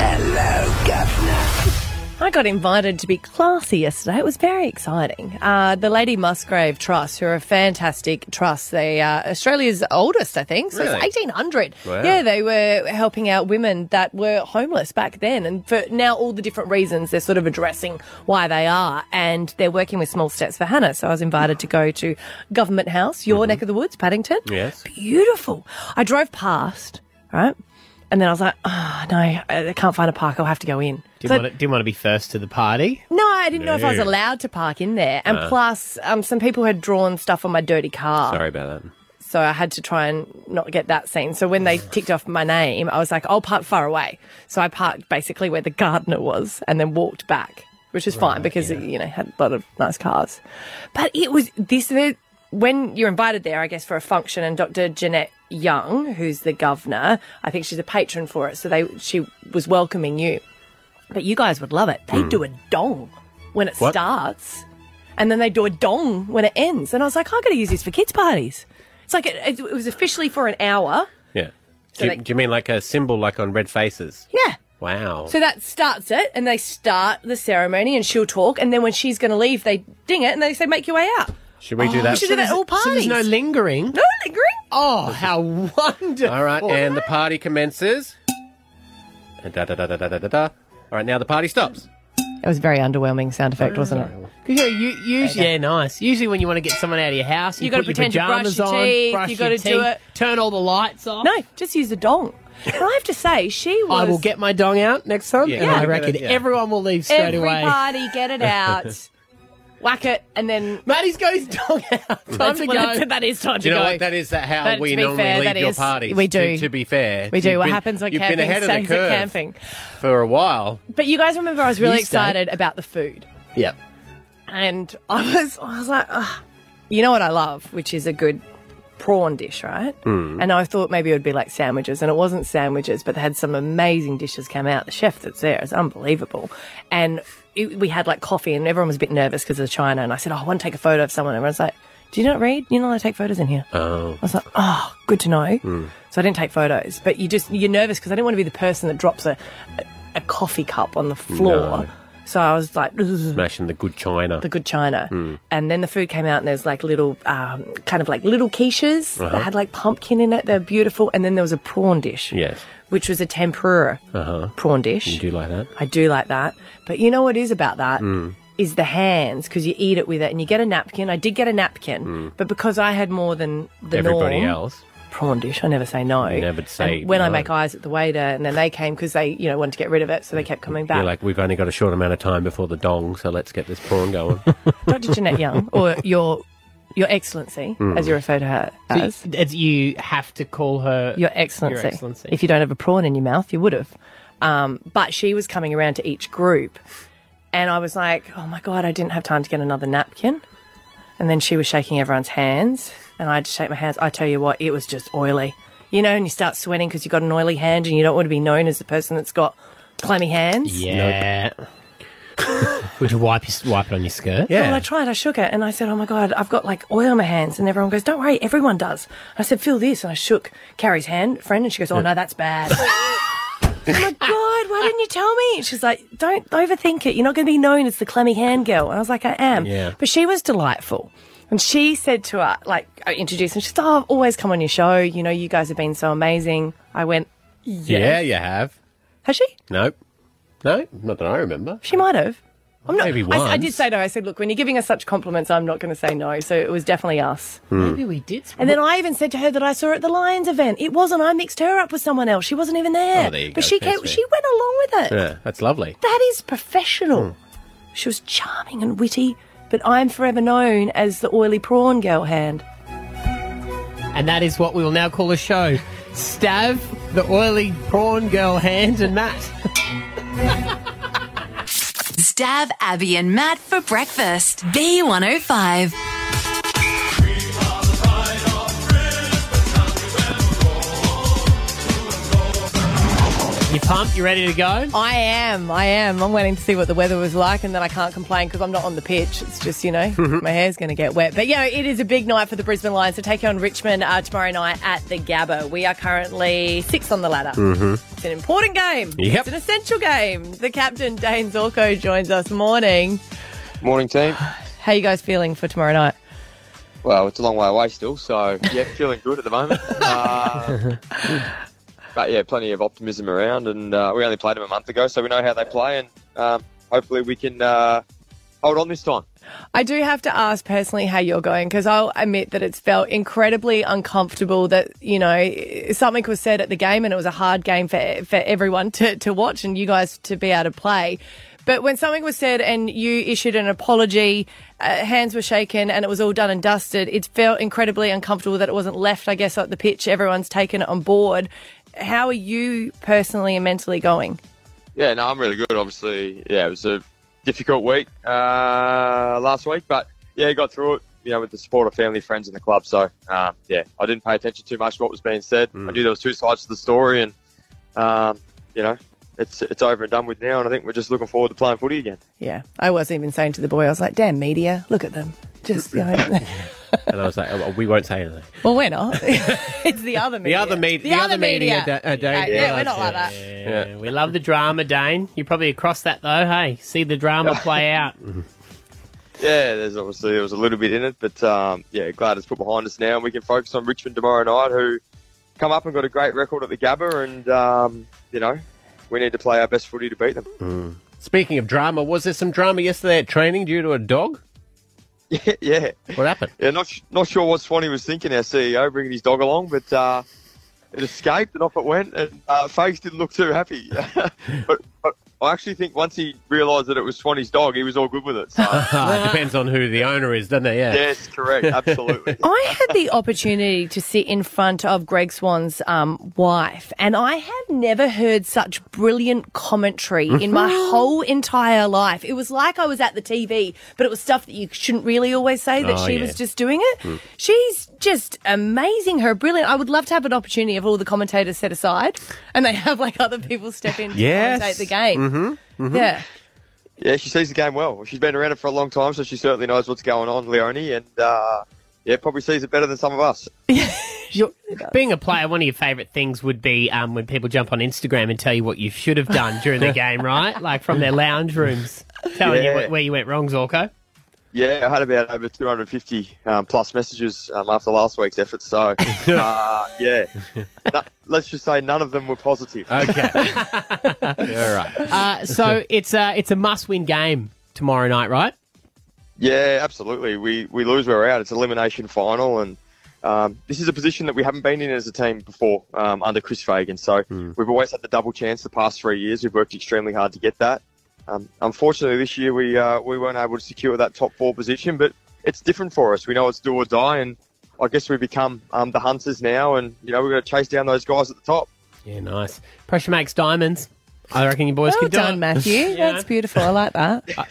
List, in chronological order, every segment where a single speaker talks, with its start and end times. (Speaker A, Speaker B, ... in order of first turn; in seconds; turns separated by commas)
Speaker A: 2.2-27.6, Speaker B: 10.7-11.1, Speaker B: 11.8-12.2, Speaker B: 23.3-23.6, Speaker B: 24.5-24.8, Speaker A: 28.1-31.5, Speaker C: 31.2-33.0, Speaker A: 33.1-38.4, Speaker B: 33.5-34.1, Speaker B: 35.3-35.5, Speaker B: 38.3-38.9, Speaker A: 39.2-50.4, Speaker B: 48.2-48.8, Speaker A: 50.9-60.4, Speaker A: 61.1-64.6, Speaker B: 62.1-62.4, Speaker A: 65.2-71.1, Speaker B: 71.3-74.3, Speaker A: 72.0-72.2, Speaker A: 74.3-74.6, Speaker B: 74.8-75.3, Speaker A: 75.3-83.2, Speaker B: 81.6-82.3, Speaker C: 82.1-84.0, Speaker A: 83.9-84.6, Speaker C: 84.7-86.8, Speaker B: 86.3-88.2, Speaker B: 89.4-91.9, Speaker A: 92.4-94.1, Speaker B: 93.7-94.3, Speaker C: 94.5-101.3, Speaker A: 95.2-95.5, Speaker A: 97.6-100.0, Speaker A: 101.2-104.2, Speaker C: 103.9-107.8, Speaker B: 105.4-106.5, Speaker A: 105.6-105.9, Speaker A: 107.1-109.1, Speaker A: 109.8-110.8, Speaker C: 110.9-113.0, Speaker A: 112.3-114.1, Speaker B: 113.6-119.3, Speaker A: 114.6-116.7, Speaker A: 117.3-119.5, Speaker B: 120.0-120.8, Speaker A: 120.9-123.3, Speaker C: 121.8-122.4, Speaker A: 124.5-128.4, Speaker A: 129.0-143.7, Speaker B: 130.1-130.5, Speaker B: 143.7-144.2, Speaker A: 144.2-153.4, Speaker B: 145.6-145.9, Speaker B: 151.3-151.9, Speaker B: 153.3-154.5, Speaker A: 154.4-162.4, Speaker B: 155.1-155.4, Speaker B: 159.2-159.5, Speaker B: 162.3-162.6, Speaker A: 162.9-164.0, Speaker B: 164.1-164.5, Speaker A: 164.6-165.2, Speaker B: 165.1-165.7, Speaker A: 165.8-174.6, Speaker B: 168.0-168.4, Speaker B: 172.1-172.3, Speaker B: 173.9-174.8, Speaker A: 175.1-181.1, Speaker B: 176.2-177.5, Speaker B: 180.8-184.5, Speaker A: 184.9-189.2, Speaker B: 187.8-188.2, Speaker C: 188.9-192.3, Speaker A: 191.2-196.8, Speaker A: 197.5-200.4, Speaker A: 201.2-210.9, Speaker C: 210.7-211.5, Speaker B: 210.9-211.2, Speaker C: 213.0-214.5, Speaker B: 214.5-214.8, Speaker A: 214.5-223.0, Speaker A: 223.9-238.2, Speaker B: 229.6-230.0, Speaker B: 237.9-238.7, Speaker A: 239.2-239.6, Speaker B: 239.7-239.9, Speaker B: 240.6-241.8, Speaker A: 241.8-247.6, Speaker B: 242.9-243.8, Speaker B: 247.7-248.0, Speaker C: 247.8-248.8, Speaker A: 248.6-255.2, Speaker B: 253.2-254.2, Speaker B: 255.1-256.0, Speaker A: 256.0-257.3, Speaker A: 257.9-262.6, Speaker C: 264.1-269.5, Speaker D: 272.2-275.9, Speaker C: 283.7-284.9, Speaker A: 284.9-303.2, Speaker B: 290.2-290.4, Speaker B: 297.6-298.0, Speaker B: 299.2-299.5, Speaker E: 303.8-304.4, Speaker A: 304.8-306.1, Speaker E: 307.0-310.8, Speaker E: 312.1-318.0, Speaker E: 318.6-319.2, Speaker A: 319.7-344.4, Speaker E: 345.0-357.3, Speaker B: 355.8-356.0, Speaker E: 358.0-362.2, Speaker A: 362.4-366.6, Speaker B: 366.5-368.5, Speaker A: 368.6-373.4, Speaker B: 369.2-369.8, Speaker B: 370.4-374.0, Speaker E: 372.4-372.7, Speaker C: 373.3-378.1, Speaker E: 379.4-385.0, Speaker E: 385.6-390.5, Speaker B: 390.6-394.4, Speaker E: 395.3-400.2, Speaker B: 396.2-396.5, Speaker E: 400.9-409.0, Speaker B: 408.7-411.1, Speaker E: 410.9-412.4, Speaker A: 412.4-435.3, Speaker B: 420.3-421.1, Speaker B: 425.8-426.4, Speaker B: 434.1-436.1, Speaker A: 435.9-436.2, Speaker E: 437.0-443.5, Speaker A: 443.7-445.0, Speaker C: 444.9-453.9, Speaker E: 452.4-452.9, Speaker E: 454.5-460.3, Speaker B: 459.1-459.5, Speaker E: 460.9-463.2, Speaker B: 462.9-463.6, Speaker B: 464.3-465.1, Speaker C: 465.0-468.5, Speaker E: 469.4-491.7, Speaker C: 492.1-496.3, Speaker A: 494.9-497.3